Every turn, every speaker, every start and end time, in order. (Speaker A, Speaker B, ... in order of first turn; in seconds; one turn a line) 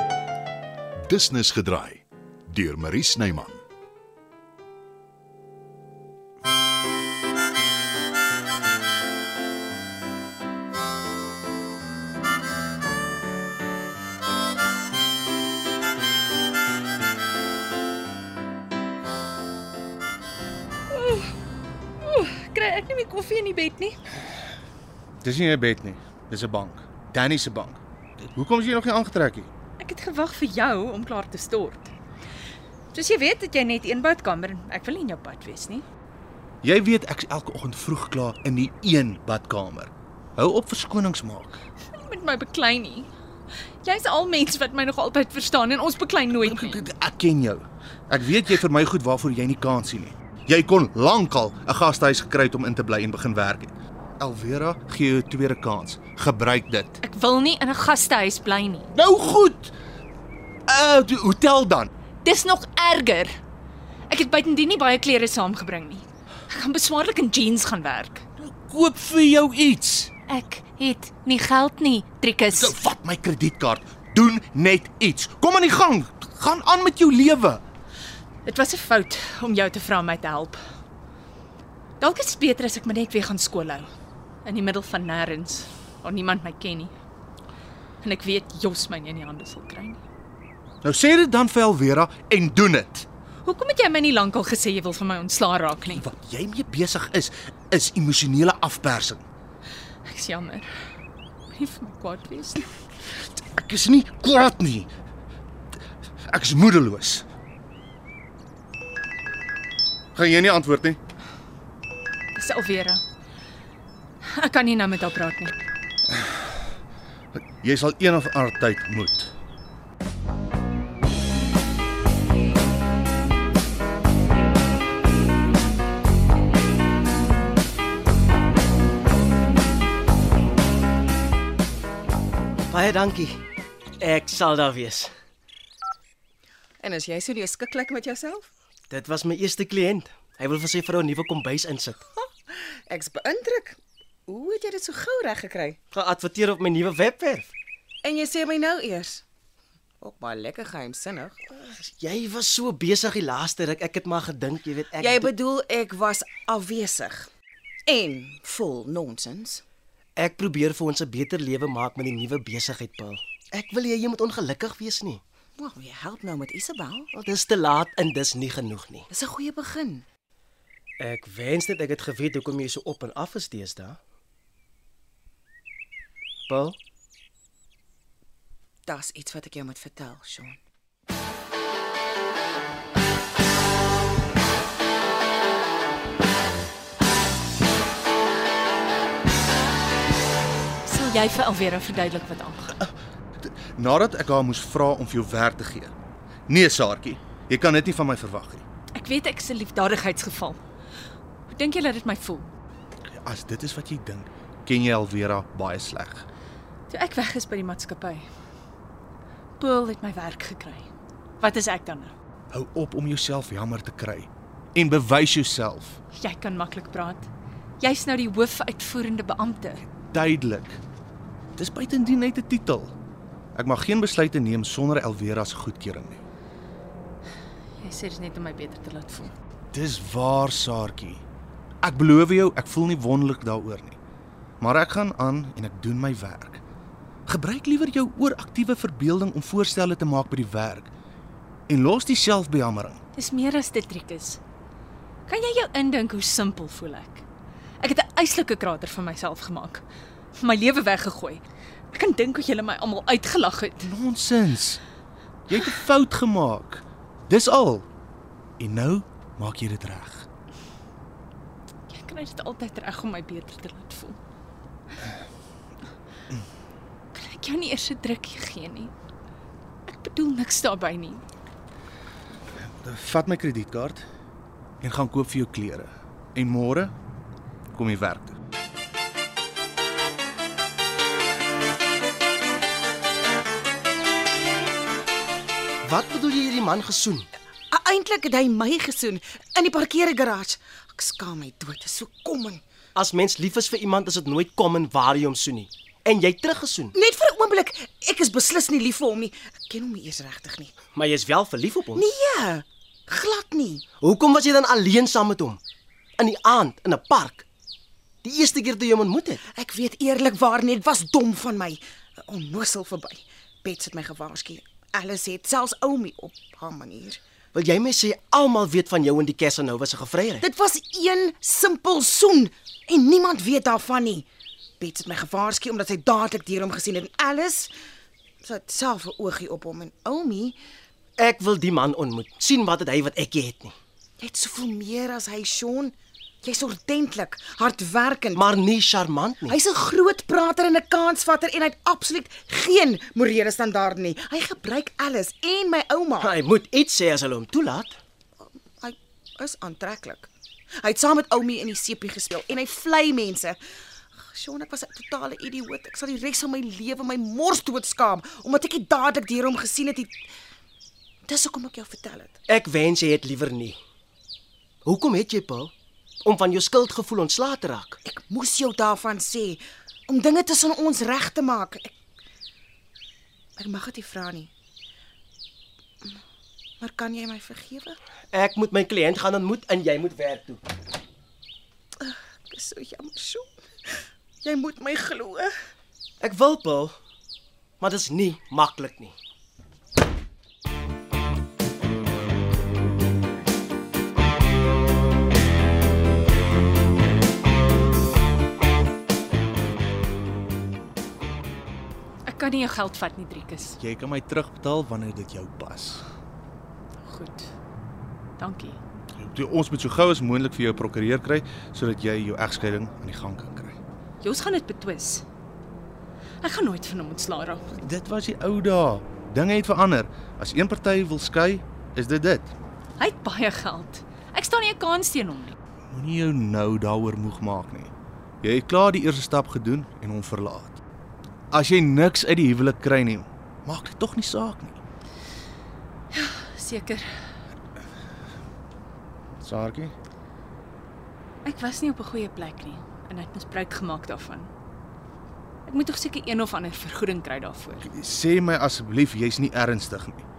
Speaker A: 1.1-3.6
Speaker B: 20.9-21.3
Speaker B: 22.0-24.0
Speaker C: 25.2-27.8
Speaker C: 28.3-29.5
Speaker B: 29.8-31.9
Speaker B: 32.9-35.8
Speaker C: 36.6-41.6
Speaker B: 41.9-43.1
Speaker B: 43.8-46.9
Speaker C: 46.4-57.0
Speaker B: 57.0-58.9
Speaker C: 58.9-59.7
Speaker C: 60.7-61.9
Speaker B: 62.2-63.4
Speaker B: 64.1-68.2
Speaker C: 68.4-70.1
Speaker B: 70.3-72.8
Speaker C: 72.5-77.6
Speaker B: 78.4-80.6
Speaker B: 82.0-83.9
Speaker B: 84.4-86.9
Speaker B: 88.0-90.0
Speaker C: 90.8-93.1
Speaker B: 93.4-96.0
Speaker C: 95.9-99.2
Speaker B: 100.0-100.7
Speaker B: 101.5-102.7
Speaker C: 103.4-104.9
Speaker C: 106.3-107.2
Speaker C: 110.1-111.0
Speaker B: 112.3-113.0
Speaker B: 114.2-115.5
Speaker C: 117.3-119.3
Speaker D: 132.7-133.4
Speaker D: 134.0-135.1
Speaker E: 136.8-138.5
Speaker D: 138.9-142.0
Speaker E: 142.9-145.8
Speaker D: 145.9-147.5
Speaker E: 148.0-149.2
Speaker E: 150.0-151.4
Speaker D: 151.5-155.3
Speaker E: 155.0-157.3
Speaker E: 157.9-159.6
Speaker D: 160.2-165.2
Speaker E: 165.6-167.1
Speaker D: 167.1-169.1
Speaker E: 169.1-170.1
Speaker D: 171.0-174.0
Speaker D: 176.5-176.8
Speaker E: 178.8-180.6
Speaker B: 190.8-192.8
Speaker C: 192.8-195.9
Speaker C: 196.5-198.6
Speaker B: 198.9-200.6
Speaker B: 201.5-202.5
Speaker C: 203.1-206.3
Speaker B: 206.9-208.2
Speaker B: 209.6-210.9
Speaker B: 211.4-212.1
Speaker C: 212.5-216.0
Speaker B: 216.1-217.3
Speaker B: 217.8-219.8
Speaker C: 220.1-220.8
Speaker C: 221.6-222.9
Speaker C: 223.5-226.2
Speaker B: 227.8-229.3
Speaker C: 229.7-231.2
Speaker C: 231.8-234.0
Speaker C: 234.6-236.6
Speaker C: 237.2-240.9
Speaker C: 241.7-243.0
Speaker B: 243.1-244.4
Speaker B: 245.3-247.2
Speaker B: 247.8-249.8
Speaker B: 250.4-253.9
Speaker C: 253.8-254.8
Speaker C: 255.5-257.9
Speaker C: 258.6-260.3
Speaker B: 261.9-264.2
Speaker B: 267.1-268.9
Speaker B: 269.9-271.2
Speaker C: 272.6-274.0
Speaker C: 274.8-276.9
Speaker C: 277.7-278.4
Speaker D: 285.8-287.3
Speaker E: 287.7-292.6
Speaker D: 292.9-296.9
Speaker E: 296.9-300.8
Speaker D: 300.9-302.1
Speaker E: 301.9-303.8
Speaker D: 304.0-305.6
Speaker D: 306.2-307.4
Speaker D: 308.2-309.4
Speaker E: 309.5-317.2
Speaker D: 317.5-320.4
Speaker E: 320.4-324.2
Speaker E: 324.8-327.7
Speaker E: 328.4-330.6
Speaker D: 331.2-333.7
Speaker E: 334.2-338.4
Speaker D: 338.3-339.6
Speaker E: 339.5-346.3
Speaker D: 346.2-348.0
Speaker E: 348.4-350.3
Speaker E: 350.8-353.6
Speaker E: 354.3-360.1
Speaker E: 361.3-362.4
Speaker D: 362.5-363.8
Speaker D: 364.8-365.7
Speaker D: 366.2-368.0
Speaker E: 368.0-371.9
Speaker E: 373.6-374.5
Speaker E: 376.8-378.0
Speaker D: 378.3-380.6
Speaker E: 382.0-383.5
Speaker E: 384.4-385.5
Speaker D: 386.2-386.9
Speaker D: 387.8-389.1
Speaker B: 402.2-403.8
Speaker C: 403.8-406.0
Speaker B: 407.0-407.5
Speaker B: 408.4-408.8
Speaker C: 409.2-413.8
Speaker B: 414.2-415.2
Speaker B: 416.4-417.7
Speaker C: 417.7-422.5
Speaker B: 423.0-425.5
Speaker C: 425.9-427.9
Speaker C: 428.4-430.8
Speaker C: 431.5-434.8
Speaker B: 436.1-437.1
Speaker C: 439.4-439.9
Speaker B: 441.4-444.5
Speaker B: 445.6-447.9
Speaker C: 447.8-450.2